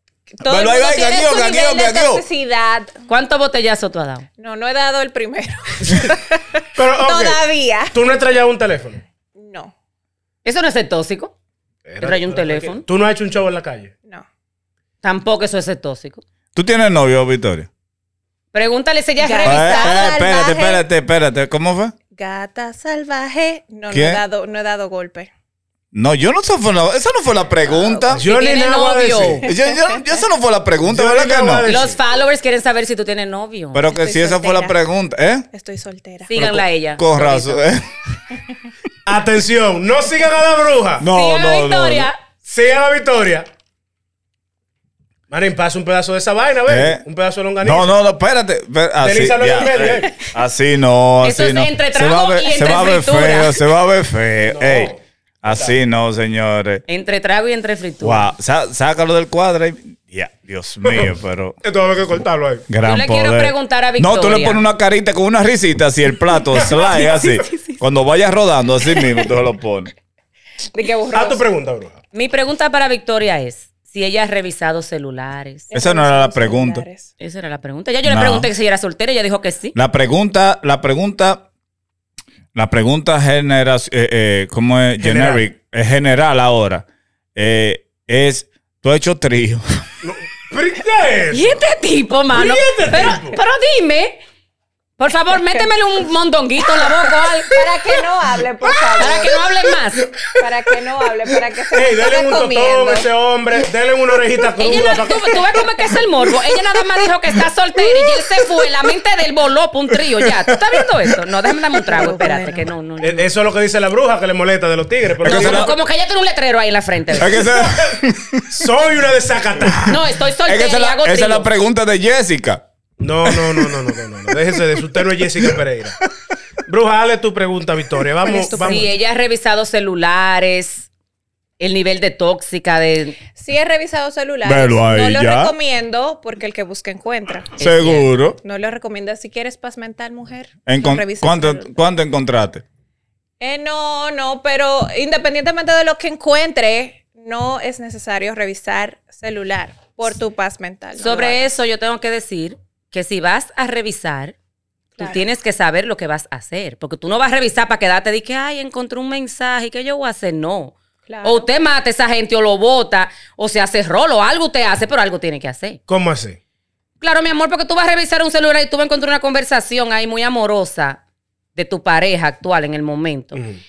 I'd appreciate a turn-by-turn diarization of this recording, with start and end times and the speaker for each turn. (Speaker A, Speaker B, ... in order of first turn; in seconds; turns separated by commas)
Speaker A: 0.4-3.0, Speaker B: 0.4-2.2, Speaker C: 3.1-4.2, Speaker A: 4.4-7.9, Speaker D: 6.7-7.4, Speaker D: 7.9-9.0, Speaker A: 9.3-9.7, Speaker C: 10.4-11.3, Speaker D: 11.8-13.9, Speaker C: 12.0-12.8, Speaker C: 15.0-16.2, Speaker B: 16.5-17.7, Speaker C: 18.5-20.1, Speaker A: 19.2-20.8, Speaker B: 19.4-21.9, Speaker A: 22.1-25.3, Speaker B: 23.9-24.2, Speaker B: 25.9-28.2, Speaker A: 27.6-28.1, Speaker D: 28.1-29.4, Speaker C: 28.2-29.4, Speaker B: 29.4-31.7, Speaker A: 29.5-30.0, Speaker D: 30.9-32.0, Speaker C: 31.6-33.8, Speaker B: 33.7-35.5, Speaker A: 33.9-34.8, Speaker A: 35.5-36.3, Speaker C: 36.3-37.6, Speaker B: 36.4-37.9, Speaker D: 39.0-41.0, Speaker B: 41.0-42.1, Speaker C: 41.1-42.2, Speaker D: 42.4-43.5, Speaker D: 45.3-47.9, Speaker B: 46.7-47.0, Speaker B: 47.6-56.8, Speaker D: 49.0-50.2, Speaker C: 51.2-53.6, Speaker D: 54.5-55.7, Speaker C: 56.9-58.2, Speaker B: 58.0-61.6, Speaker D: 60.8-61.1, Speaker D: 61.6-62.7, Speaker B: 62.7-69.9, Speaker C: 62.8-64.6, Speaker A: 70.7-71.4, Speaker D: 71.1-72.0, Speaker C: 72.1-75.7, Speaker A: 75.7-77.1, Speaker B: 75.7-76.8, Speaker C: 77.2-79.7, Speaker B: 78.0-78.5, Speaker B: 79.7-81.5, Speaker B: 82.5-89.8, Speaker D: 85.0-85.4, Speaker D: 90.0-91.6, Speaker C: 91.3-94.2, Speaker D: 92.3-93.4, Speaker C: 95.0-97.7, Speaker A: 96.7-99.5, Speaker C: 99.0-100.0, Speaker A: 100.3-103.1, Speaker D: 101.7-105.3, Speaker C: 104.6-113.3, Speaker A: 104.7-105.0, Speaker B: 109.9-111.1, Speaker A: 112.0-112.6, Speaker D: 113.0-115.8, Speaker B: 115.2-115.7, Speaker C: 115.2-117.4, Speaker B: 117.1-118.6, Speaker D: 117.4-118.0, Speaker D: 118.5-119.9, Speaker B: 119.6-122.6, Speaker C: 119.8-121.5, Speaker D: 123.0-126.0, Speaker B: 123.2-123.8, Speaker B: 124.9-125.6, Speaker D: 126.6-128.9, Speaker A: 128.2-128.9, Speaker C: 128.5-130.9, Speaker C: 131.6-133.2, Speaker A: 133.3-137.5, Speaker B: 134.4-135.5, Speaker C: 137.6-138.1, Speaker B: 137.6-138.4, Speaker A: 138.4-141.7, Speaker B: 140.7-142.6, Speaker A: 143.4-151.4, Speaker C: 151.0-154.3, Speaker A: 155.0-155.2, Speaker C: 155.0-165.8, Speaker A: 161.1-161.5, Speaker D: 165.9-166.4, Speaker C: 167.0-171.0, Speaker C: 171.6-173.4, Speaker D: 173.3-173.6